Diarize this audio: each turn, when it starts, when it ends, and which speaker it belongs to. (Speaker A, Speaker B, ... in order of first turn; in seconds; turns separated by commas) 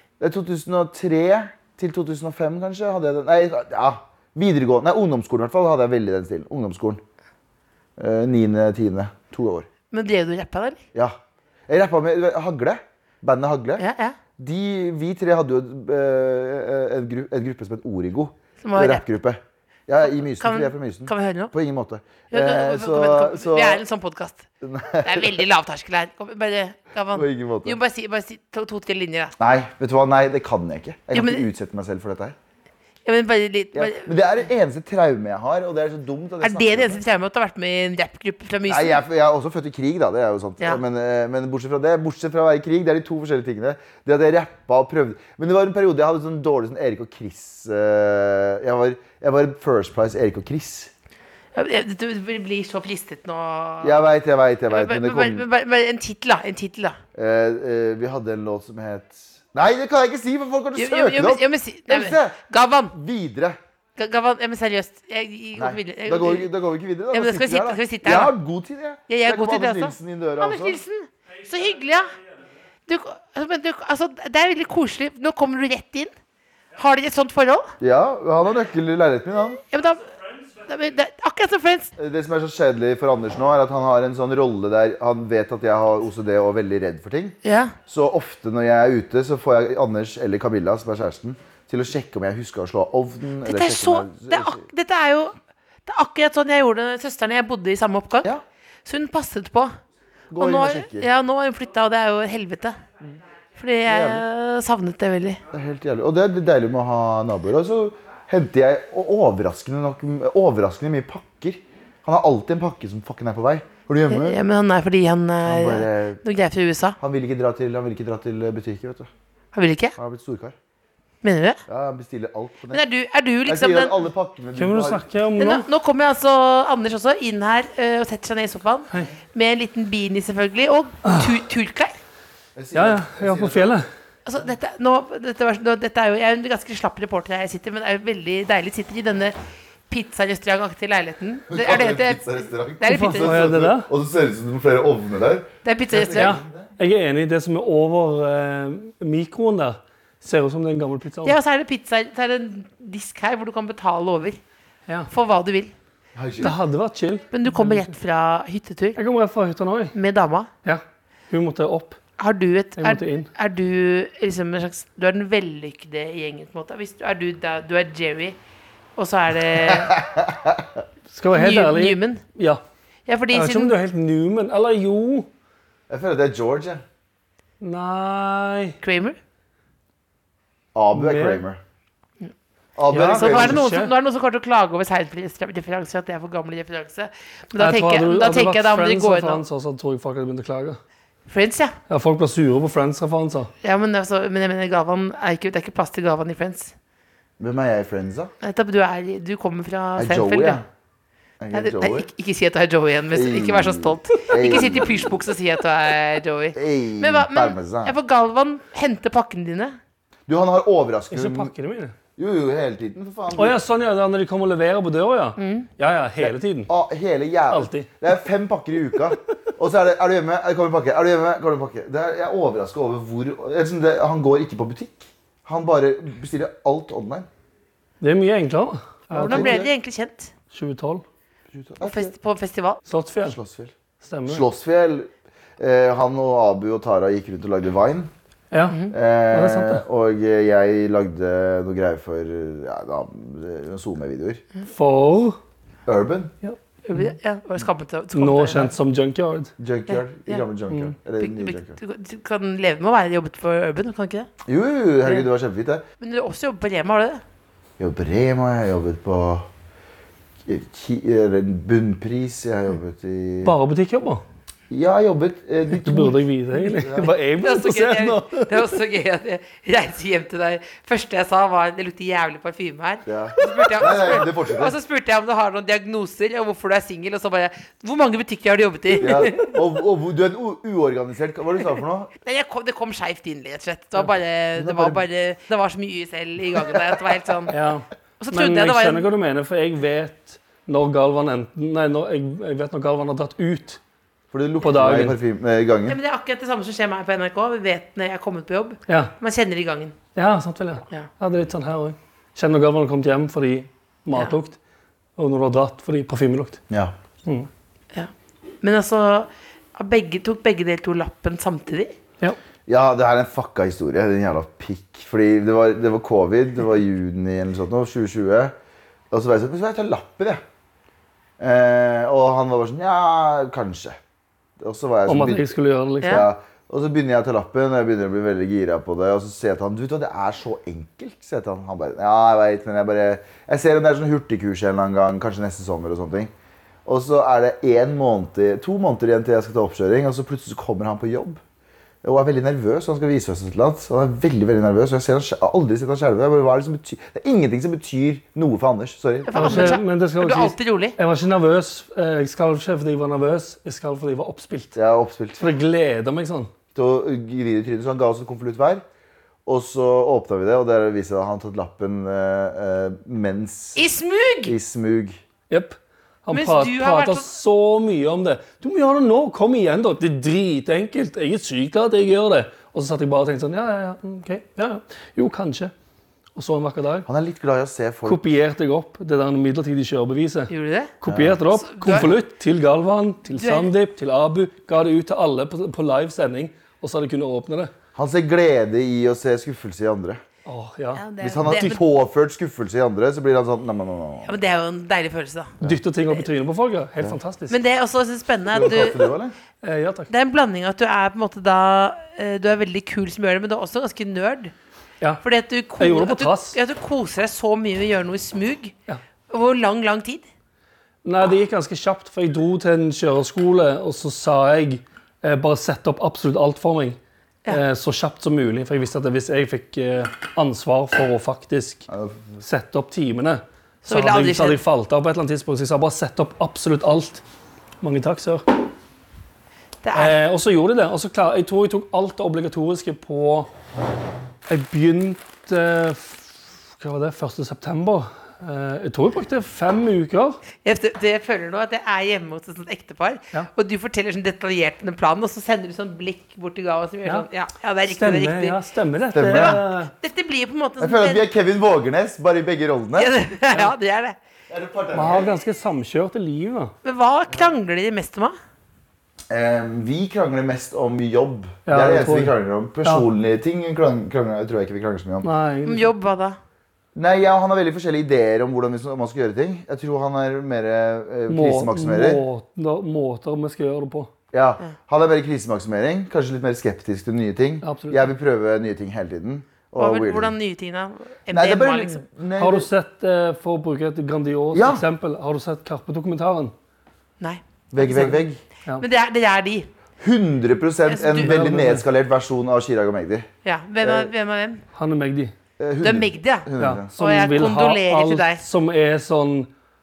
Speaker A: 0.2-7.0, Speaker A: 8.0-9.7, Speaker B: 9.9-10.8, Speaker A: 10.9-13.8, Speaker B: 13.8-14.2, Speaker A: 14.4-23.8, Speaker B: 18.6-19.0, Speaker B: 20.4-21.5, Speaker B: 22.3-24.4, Speaker A: 24.6-25.4, Speaker B: 25.0-29.4, Speaker A: 27.1-27.8, Speaker A: 29.4-32.4, Speaker B: 31.1-31.4, Speaker B: 33.0-34.1, Speaker A: 33.7-37.0, Speaker B: 36.4-39.0, Speaker A: 38.7-50.9, Speaker B: 51.5-54.0, Speaker A: 53.8-55.4, Speaker B: 54.7-57.0, Speaker A: 57.1-62.4, Speaker B: 60.7-62.9, Speaker A: 62.9-63.6, Speaker B: 64.0-66.5, Speaker A: 65.6-70.8, Speaker B: 67.1-68.3, Speaker B: 69.1-72.1, Speaker B: 72.9-76.1, Speaker B: 76.7-77.7, Speaker A: 77.8-79.6, Speaker B: 79.7-81.9, Speaker A: 82.0-94.6, Speaker B: 87.4-87.7, Speaker B: 93.4-98.3, Speaker B: 98.8-99.8, Speaker A: 100.3-101.1, Speaker B: 100.4-102.8, Speaker B: 103.5-105.4, Speaker A: 103.9-104.2, Speaker A: 105.5-114.4, Speaker B: 114.1-117.0, Speaker A: 115.4-116.2, Speaker A: 117.0-119.1, Speaker B: 119.5-119.9, Speaker A: 120.0-120.5, Speaker B: 121.2-121.6, Speaker A: 121.7-122.8, Speaker B: 122.7-123.9, Speaker A: 123.5-125.0, Speaker C: 124.5-125.7, Speaker B: 125.4-131.9, Speaker C: 131.0-131.3, Speaker A: 132.6-133.8, Speaker C: 132.7-133.9, Speaker B: 134.2-139.3, Speaker B: 139.9-142.2, Speaker A: 141.5-146.7, Speaker B: 142.8-143.4, Speaker C: 142.9-143.9, Speaker B: 145.6-146.4, Speaker C: 146.1-151.3, Speaker B: 151.2-154.4, Speaker B: 155.1-155.7, Speaker A: 156.1-156.6, Speaker C: 156.4-157.9, Speaker B: 157.3-159.0, Speaker C: 158.9-159.9, Speaker B: 159.9-160.5, Speaker C: 160.6-162.0, Speaker B: 162.2-168.3, Speaker C: 162.8-163.3, Speaker B: 168.9-170.0, Speaker A: 169.6-170.7, Speaker C: 171.1-172.6, Speaker B: 171.3-172.2, Speaker B: 173.1-173.8, Speaker C: 173.3-175.3, Speaker A: 175.9-176.8, Speaker C: 177.6-178.8, Speaker B: 178.8-179.2, Speaker A: 180.7-181.6, Speaker C: 180.9-181.4, Speaker A: 182.8-183.6, Speaker C: 182.9-183.9, Speaker B: 183.0-189.4, Speaker C: 187.6-190.8, Speaker B: 191.3-191.7, Speaker C: 191.9-193.5, Speaker B: 193.6-196.7, Speaker A: 197.4-198.3, Speaker B: 198.4-200.6, Speaker A: 200.0-200.7, Speaker A: 201.4-202.1, Speaker B: 201.5-209.8, Speaker A: 203.1-205.2, Speaker A: 206.5-207.9, Speaker A: 210.3-211.5, Speaker C: 211.1-211.9, Speaker A: 212.2-213.6, Speaker C: 213.3-216.7, Speaker B: 215.4-215.7, Speaker A: 216.2-227.3, Speaker C: 217.5-217.9, Speaker C: 228.0-229.6, Speaker B: 229.1-230.3, Speaker A: 229.2-229.7, Speaker C: 230.5-231.0, Speaker A: 231.5-232.1, Speaker B: 231.8-232.8, Speaker C: 232.9-233.4, Speaker A: 233.2-233.7, Speaker C: 234.0-234.4, Speaker A: 234.3-238.1, Speaker C: 238.5-238.8, Speaker A: 238.9-244.4, Speaker C: 239.3-239.8, Speaker C: 244.7-245.4, Speaker A: 245.8-246.3, Speaker C: 246.4-247.1, Speaker B: 246.8-248.7, Speaker C: 248.1-249.5, Speaker A: 249.6-251.8, Speaker B: 249.9-250.4, Speaker B: 251.2-254.3, Speaker A: 254.4-255.8, Speaker B: 256.0-257.2, Speaker A: 257.8-259.5, Speaker A: 260.4-263.5, Speaker C: 263.4-264.2, Speaker A: 264.7-267.1, Speaker C: 265.7-268.7, Speaker B: 267.4-279.5, Speaker A: 273.1-274.7, Speaker A: 279.0-282.1, Speaker B: 282.2-287.5, Speaker A: 284.6-285.0, Speaker A: 286.5-286.9, Speaker C: 287.5-293.8, Speaker B: 288.2-289.1, Speaker A: 294.3-296.0, Speaker C: 294.6-295.2, Speaker B: 295.9-299.9, Speaker C: 298.9-299.1, Speaker C: 300.1-304.6, Speaker C: 305.2-306.6, Speaker A: 306.7-306.9, Speaker B: 308.6-311.9, Speaker A: 312.7-318.5, Speaker A: 319.1-320.4, Speaker A: 321.4-324.0, Speaker A: 324.6-336.3, Speaker C: 325.1-326.2, Speaker A: 336.9-341.4, Speaker A: 342.0-349.7, Speaker B: 349.3-350.9, Speaker C: 349.3-354.8, Speaker A: 354.7-355.4, Speaker C: 355.4-356.5, Speaker A: 356.7-358.8, Speaker A: 359.4-363.8, Speaker B: 363.8-364.5, Speaker A: 364.4-365.2, Speaker C: 365.5-375.7, Speaker B: 366.3-367.3, Speaker C: 376.3-377.1, Speaker A: 377.0-378.3, Speaker C: 378.0-387.7, Speaker B: 380.5-380.9, Speaker A: 381.1-381.4, Speaker B: 381.5-382.1, Speaker B: 383.3-383.7, Speaker A: 387.9-390.2, Speaker C: 390.4-391.0, Speaker B: 390.9-391.8, Speaker A: 391.2-394.4, Speaker B: 394.2-395.6, Speaker C: 395.6-397.6, Speaker B: 397.5-399.1, Speaker A: 398.5-399.3, Speaker C: 399.6-400.1, Speaker B: 400.1-404.5, Speaker B: 405.2-408.7, Speaker C: 405.8-406.6, Speaker B: 409.3-410.3, Speaker C: 411.0-421.9, Speaker A: 421.9-422.4, Speaker C: 422.4-427.2, Speaker B: 423.9-424.6, Speaker C: 427.8-428.5, Speaker B: 429.8-430.1, Speaker C: 429.9-433.5, Speaker C: 434.5-440.4, Speaker B: 440.6-448.6, Speaker C: 447.9-449.9, Speaker A: 449.1-449.6, Speaker B: 449.1-451.2, Speaker A: 450.8-453.1, Speaker B: 452.9-454.2, Speaker A: 454.5-455.3, Speaker C: 454.9-456.7, Speaker B: 456.8-458.3, Speaker A: 459.3-465.3, Speaker C: 461.6-463.1, Speaker C: 465.2-465.9, Speaker B: 465.6-466.4, Speaker A: 466.9-472.2, Speaker C: 471.3-474.1, Speaker A: 474.3-480.3, Speaker C: 477.6-478.1, Speaker B: 479.8-482.0, Speaker A: 481.3-482.7, Speaker C: 482.4-486.5, Speaker A: 484.5-484.8, Speaker B: 487.2-488.2, Speaker A: 487.7-488.4, Speaker B: 488.8-489.7, Speaker A: 490.0-493.3, Speaker B: 490.9-491.4, Speaker C: 491.2-491.8, Speaker B: 493.4-494.6, Speaker A: 493.8-494.1, Speaker C: 494.7-495.3, Speaker A: 495.6-496.9, Speaker B: 495.8-498.4, Speaker C: 496.6-499.5